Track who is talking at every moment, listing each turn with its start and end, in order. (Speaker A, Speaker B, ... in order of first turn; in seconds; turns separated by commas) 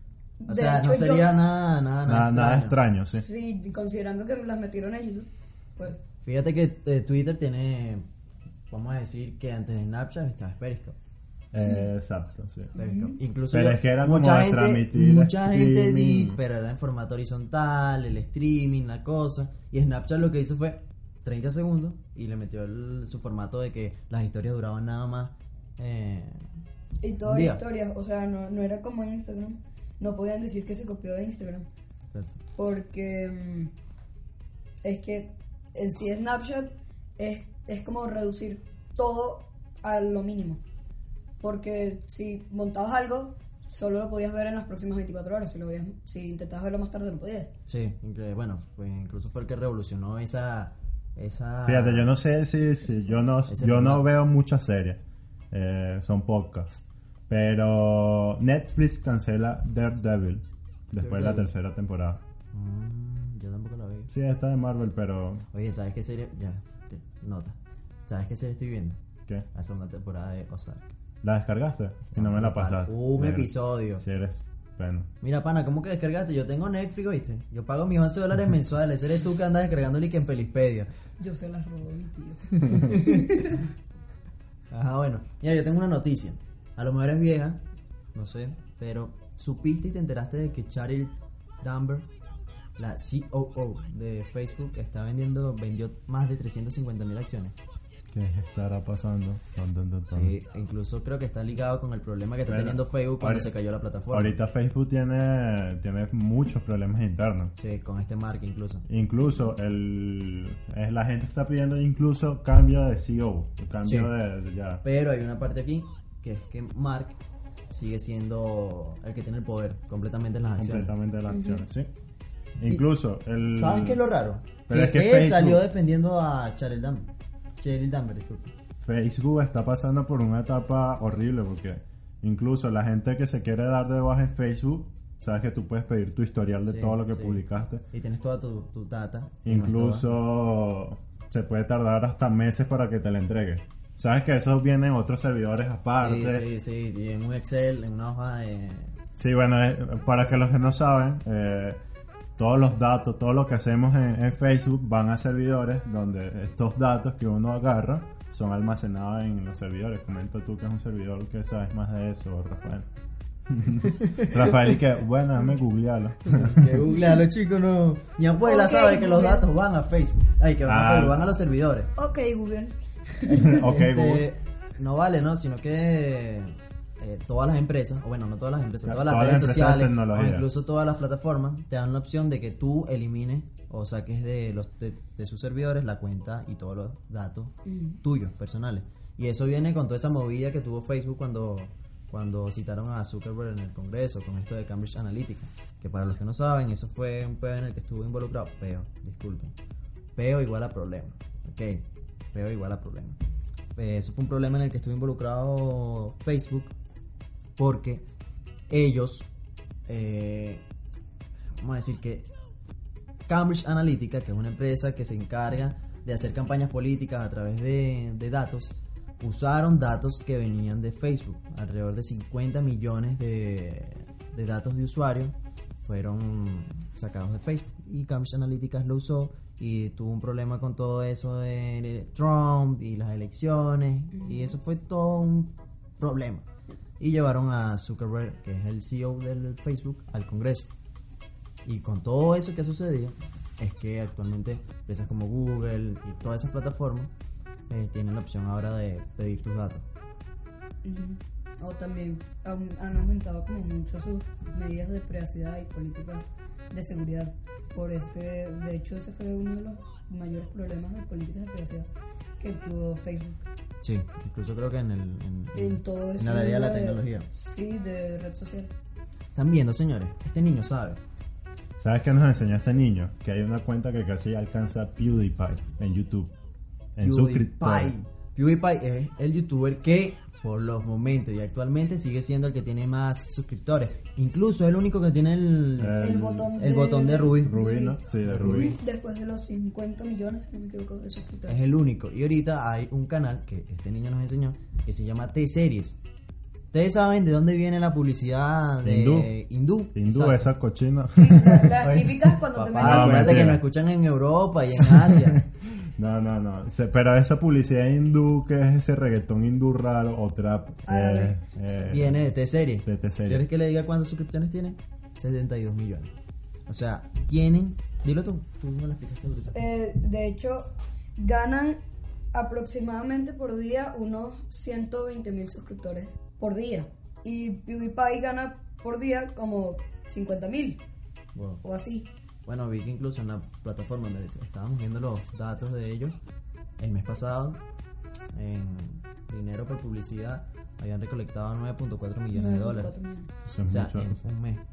Speaker A: 0.4-1.3, Speaker B: 0.5-2.8, Speaker C: 2.1-3.2, Speaker A: 3.1-6.0, Speaker B: 6.2-8.1, Speaker B: 8.7-10.9, Speaker C: 11.5-12.8, Speaker A: 11.6-11.9, Speaker B: 12.8-26.5, Speaker A: 12.8-13.2, Speaker C: 13.5-16.4, Speaker A: 27.0-31.7, Speaker B: 27.2-27.6, Speaker A: 32.6-33.7, Speaker A: 34.8-40.6, Speaker A: 41.4-47.5, Speaker B: 47.7-52.1, Speaker C: 51.6-62.2, Speaker B: 53.5-54.1, Speaker B: 61.0-61.5, Speaker B: 62.5-64.1, Speaker C: 64.1-65.4, Speaker B: 65.5-69.0, Speaker B: 69.5-70.9, Speaker C: 71.2-75.1, Speaker B: 72.1-74.0, Speaker B: 75.2-80.9, Speaker A: 81.2-83.5, Speaker B: 82.6-83.6, Speaker B: 84.7-87.6, Speaker B: 88.1-92.1, Speaker B: 92.8-97.5, Speaker C: 98.1-100.4, Speaker B: 100.1-104.4, Speaker C: 102.5-103.5, Speaker C: 104.1-107.5, Speaker B: 107.6-108.9, Speaker C: 108.9-114.8, Speaker B: 113.8-114.1, Speaker B: 114.8-117.2, Speaker B: 117.7-120.9, Speaker C: 120.6-121.9, Speaker A: 121.3-121.6, Speaker C: 122.6-124.0, Speaker B: 123.5-128.5, Speaker C: 124.7-125.6, Speaker C: 128.8-137.8, Speaker B: 136.7-140.2, Speaker C: 139.4-146.5, Speaker B: 146.0-148.9, Speaker C: 149.2-151.8, Speaker C: 152.4-162.9, Speaker C: 163.5-166.8, Speaker B: 163.9-164.3, Speaker B: 166.2-171.9, Speaker A: 168.4-169.4, Speaker C: 170.6-171.2, Speaker A: 171.9-173.6, Speaker B: 173.2-199.6, Speaker C: 173.3-174.3, Speaker C: 178.8-180.5, Speaker A: 187.7-188.0, Speaker B: 200.2-203.2, Speaker B: 203.8-206.7, Speaker B: 207.6-208.0, Speaker B: 208.7-209.3, Speaker B: 209.9-210.6, Speaker B: 211.6-212.3, Speaker B: 213.3-236.4, Speaker A: 234.1-234.6, Speaker B: 237.0-240.7, Speaker B: 241.7-247.1, Speaker B: 247.7-249.8, Speaker A: 250.8-261.9, Speaker A: 262.4-263.4, Speaker B: 263.8-267.3, Speaker A: 265.6-268.7, Speaker B: 269.3-271.0, Speaker C: 271.8-276.3, Speaker C: 276.9-277.9, Speaker B: 277.0-286.0, Speaker C: 285.8-286.6, Speaker A: 286.0-291.6, Speaker B: 286.6-287.6, Speaker C: 287.4-288.8, Speaker B: 288.2-288.8, Speaker B: 291.5-296.0, Speaker B: 296.7-300.5, Speaker C: 298.8-299.3, Speaker C: 299.9-302.1, Speaker A: 301.1-303.6, Speaker B: 301.8-305.4, Speaker C: 302.8-303.6, Speaker C: 304.8-312.3, Speaker A: 310.9-311.4, Speaker B: 311.9-316.1, Speaker C: 312.8-313.4, Speaker B: 316.7-319.7, Speaker A: 319.4-321.8, Speaker A: 322.3-330.8, Speaker B: 331.3-331.6, Speaker A: 331.6-332.1, Speaker B: 332.4-336.2, Speaker B: 336.8-337.6, Speaker B: 338.3-342.9, Speaker A: 342.3-343.3, Speaker C: 343.4-344.2, Speaker B: 343.7-344.6